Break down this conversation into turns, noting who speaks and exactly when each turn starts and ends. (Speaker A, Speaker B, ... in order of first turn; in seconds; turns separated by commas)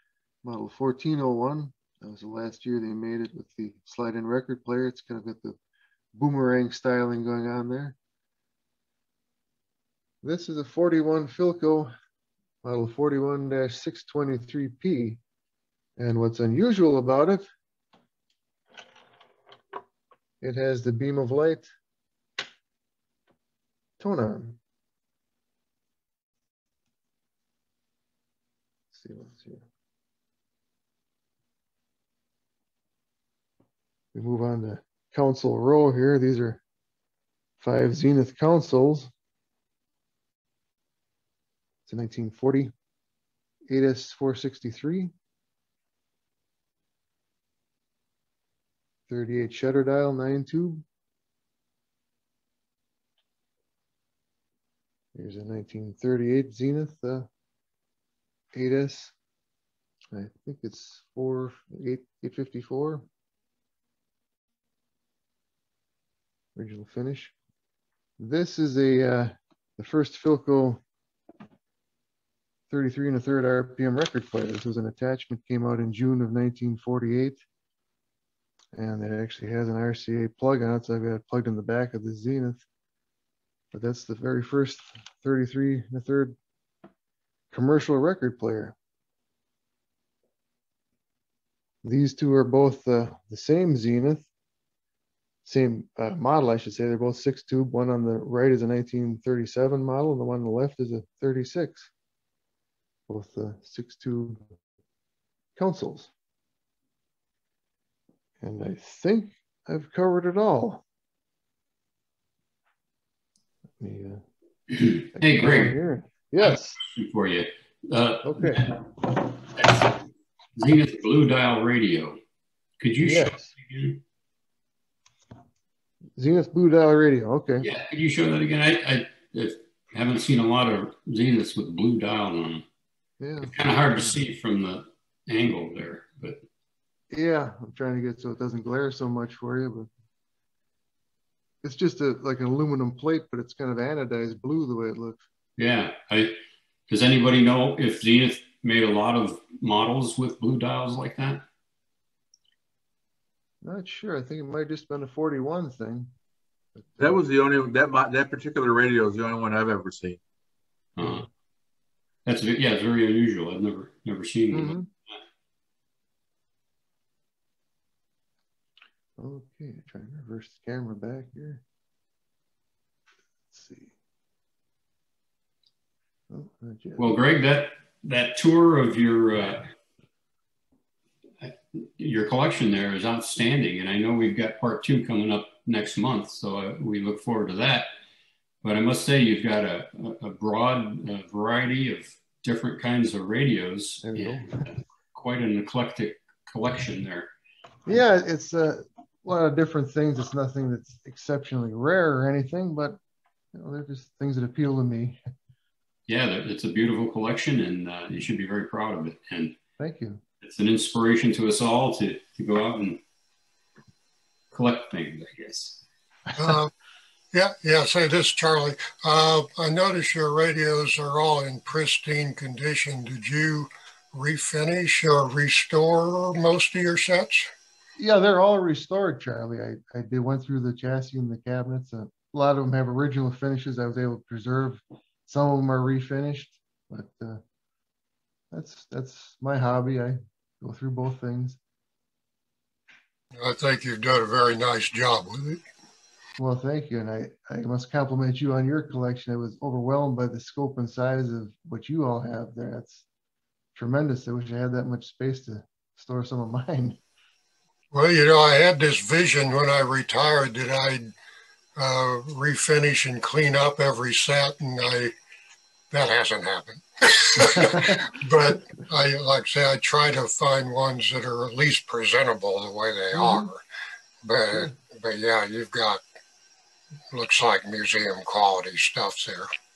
Speaker A: 0.4-5.6, Speaker A: 6.1-8.0, Speaker A: 10.2-11.9, Speaker A: 12.6-15.2, Speaker A: 16.0-17.5, Speaker A: 20.4-21.7, Speaker A: 24.0-24.6, Speaker A: 28.9-29.6, Speaker A: 34.1-36.6, Speaker A: 37.6-39.1, Speaker A: 41.9-42.7, Speaker A: 43.7-45.1, Speaker A: 49.1-50.8, Speaker A: 55.1-57.3, Speaker A: 58.5-59.1, Speaker A: 60.1-63.1, Speaker A: 66.5-67.3, Speaker A: 68.2-70.8, Speaker A: 72.7-77.4, Speaker A: 78.7-82.6, Speaker A: 83.7-86.3, Speaker A: 87.5-88.8, Speaker A: 91.8-94.3, Speaker A: 95.4-101.9, Speaker A: 103.1-104.5, Speaker A: 105.5-106.1, Speaker A: 108.4-110.8, Speaker A: 113.8-114.2, Speaker B: 114.8-115.8, Speaker A: 115.1-116.8, Speaker B: 116.4-118.8, Speaker A: 118.2-118.7, Speaker B: 119.5-119.9, Speaker B: 120.5-122.2, Speaker B: 122.8-124.0, Speaker A: 123.0-123.5, Speaker A: 126.2-127.7, Speaker B: 127.6-132.6, Speaker A: 133.2-134.2, Speaker B: 133.4-136.4, Speaker A: 137.1-139.9, Speaker A: 141.6-145.2, Speaker B: 145.6-151.4, Speaker A: 153.6-156.1, Speaker C: 157.0-160.2, Speaker B: 161.0-161.3, Speaker B: 162.2-164.7, Speaker A: 164.5-164.9, Speaker A: 169.2-171.6, Speaker A: 173.5-173.9, Speaker A: 176.3-177.2, Speaker B: 177.0-179.7, Speaker B: 181.4-187.9, Speaker B: 188.6-197.3, Speaker A: 194.0-194.6, Speaker A: 197.8-203.0, Speaker A: 203.5-205.2, Speaker B: 206.1-209.6, Speaker A: 209.8-210.2, Speaker B: 210.4-213.0, Speaker B: 214.5-215.8, Speaker D: 216.3-216.7, Speaker D: 217.3-227.5, Speaker A: 228.0-237.4, Speaker A: 238.5-241.6, Speaker D: 243.3-245.6, Speaker A: 246.4-253.1, Speaker A: 253.7-257.0, Speaker D: 257.9-261.1, Speaker D: 261.8-265.1, Speaker D: 265.9-273.6, Speaker A: 273.1-273.5, Speaker D: 274.2-276.0, Speaker D: 277.1-279.5